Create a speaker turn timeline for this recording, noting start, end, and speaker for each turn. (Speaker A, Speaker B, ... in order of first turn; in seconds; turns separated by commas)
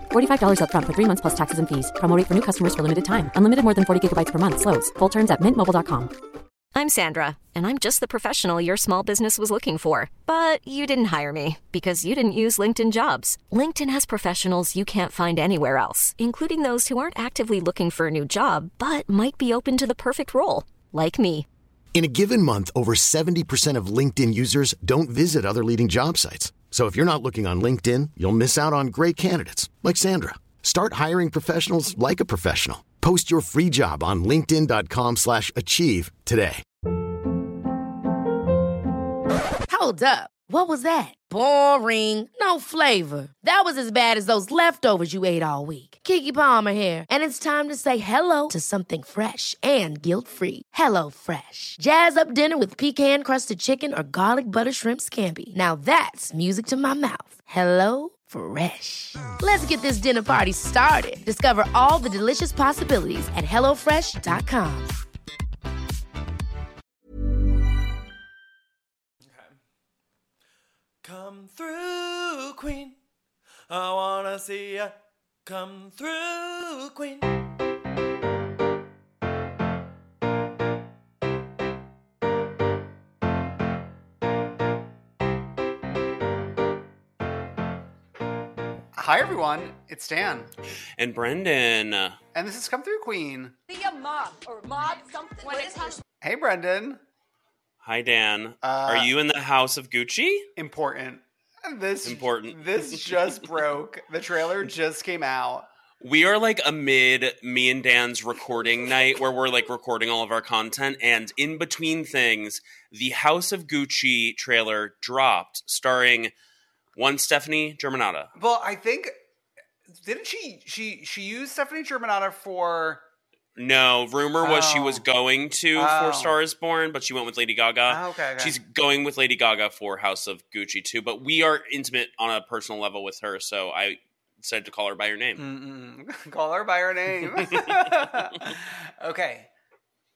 Speaker A: 0.1-6.1, Speaker B: 6.7-21.5, Speaker C: 21.9-36.6, Speaker D: 39.7-64.9, Speaker E: 69.3-69.5, Speaker E: 71.0-73.0, Speaker E: 73.7-75.0, Speaker E: 75.5-77.3, Speaker F: 89.0-90.5, Speaker G: 91.0-92.2, Speaker F: 92.3-93.6, Speaker H: 93.7-96.0, Speaker F: 96.2-97.0, Speaker G: 97.8-100.5, Speaker F: 98.6-99.1, Speaker F: 100.6-105.7, Speaker G: 102.0-103.0, Speaker G: 106.0-116.3, Speaker G: 117.0-118.3, Speaker F: 118.4-119.1, Speaker F: 119.9-123.0, Speaker G: 123.6-135.4, Speaker F: 124.4-125.0, Speaker F: 125.8-126.4, Speaker F: 127.9-128.6, Speaker F: 135.4-139.5, Speaker G: 137.5-137.8